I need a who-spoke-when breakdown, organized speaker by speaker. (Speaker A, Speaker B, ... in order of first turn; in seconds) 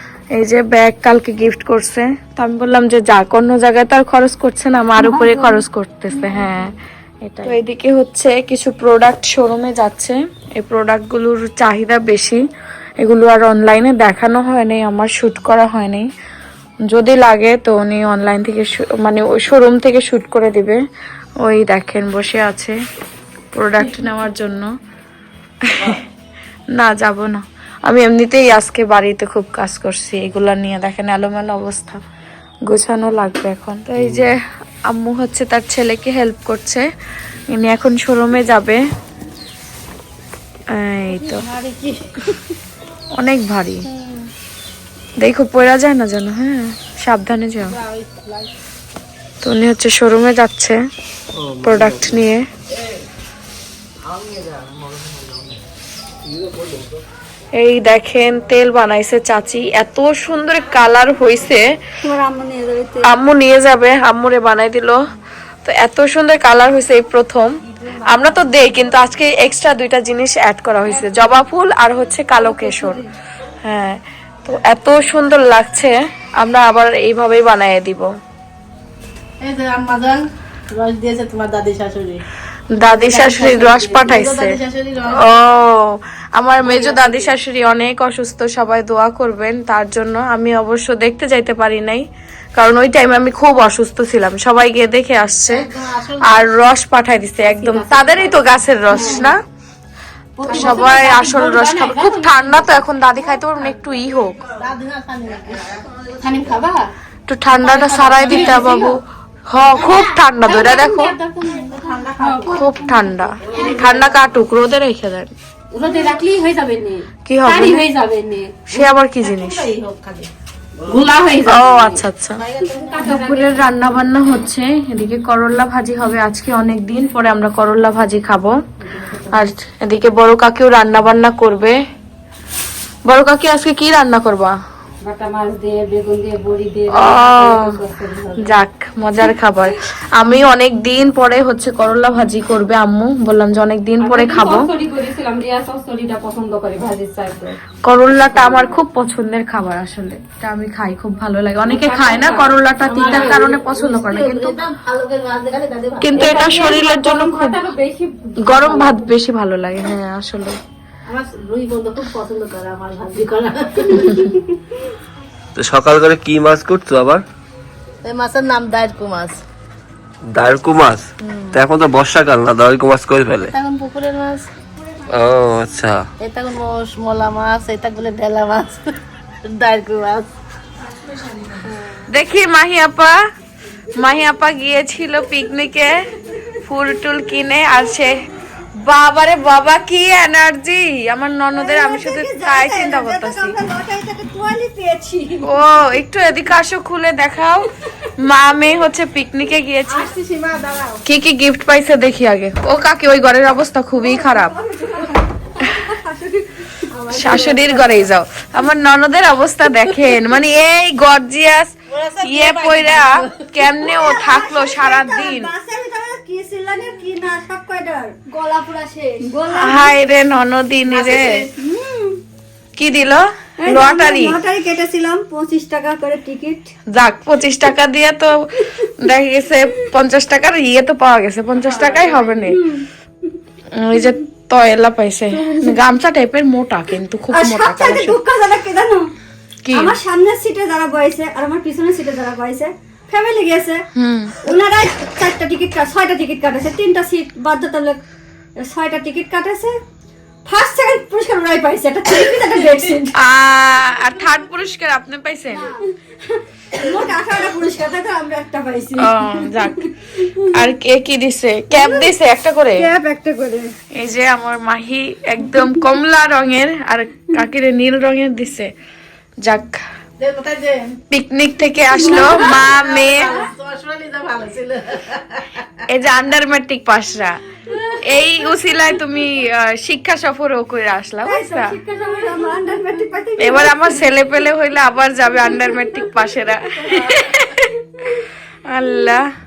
Speaker A: 0.4-6.7, 7.4-12.4, 13.0-16.1, 16.9-20.8, 21.4-22.8, 23.5-24.7, 25.7-26.0, 26.7-32.0, 32.7-36.9, 37.5-38.8, 40.7-41.4, 43.2-43.9, 45.2-47.8, 49.4-50.8, 51.6-52.5, 57.5-61.8, 63.0-65.0, 65.6-73.0, 73.6-78.1, 82.7-84.5, 85.1-95.7, 96.2-99.4, 100.5-104.4, 107.3-111.1, 112.5-115.3, 117.3-117.9, 118.7-119.6, 121.5-122.4, 123.0-128.5, 129.3-131.8, 133.0-134.5, 136.9-137.7, 138.4-144.7, 147.8-154.6, 156.0-157.6, 158.4-160.6, 181.0-183.2, 183.9-186.0, 186.5-188.2, 188.8-193.6, 195.4-200.1, 201.0-204.5, 207.1-215.5, 219.5-221.5, 222.8-224.4, 226.9-232.7, 233.7-238.2, 239.6-239.9, 243.9-244.4, 253.1-255.7, 259.0-262.9, 263.9-268.7, 269.4-269.8, 271.1-273.4, 275.9-281.7, 283.4-287.8, 288.6-289.3
Speaker B: 5.0-6.6, 62.0-63.1, 72.4-73.1, 191.5-195.5, 199.9-201.0, 204.0-208.1, 213.8-220.0, 221.5-222.2, 223.6-226.7, 232.5-232.9, 235.3-235.8, 237.3-239.1, 239.7-243.9, 244.4-248.0, 248.6-249.8, 250.4-253.2, 255.5-259.9, 261.7-262.1, 262.7-263.7, 271.9-272.6, 281.2-283.9, 286.6-287.0
Speaker C: 41.1-42.1, 43.9-44.3, 47.6-48.5, 79.4-82.2, 82.8-85.3, 86.6-87.3, 95.5-96.5, 97.6-99.3, 100.5-101.6, 104.6-106.9, 107.5-109.0, 109.7-114.3, 115.7-120.3, 120.8-123.4, 152.8-156.6, 161.1-164.7, 168.0-169.4, 173.5-174.5, 176.2-178.9, 179.4-180.3, 181.6-182.1, 211.9-213.8, 220.9-221.5, 231.7-232.3, 270.2-270.9, 272.0-275.7
Speaker D: 51.4-52.1, 165.6-167.2, 170.3-173.5, 175.1-176.1
Speaker E: 97.6-98.3, 98.9-99.3, 100.4-102.8, 106.5-106.8, 108.2-108.6, 112.2-112.6, 115.8-116.9, 117.6-118.2, 121.2-121.6, 122.6-123.9, 129.0-129.4, 135.0-138.6, 144.0-147.6, 148.2-148.8, 151.7-153.4, 156.1-159.1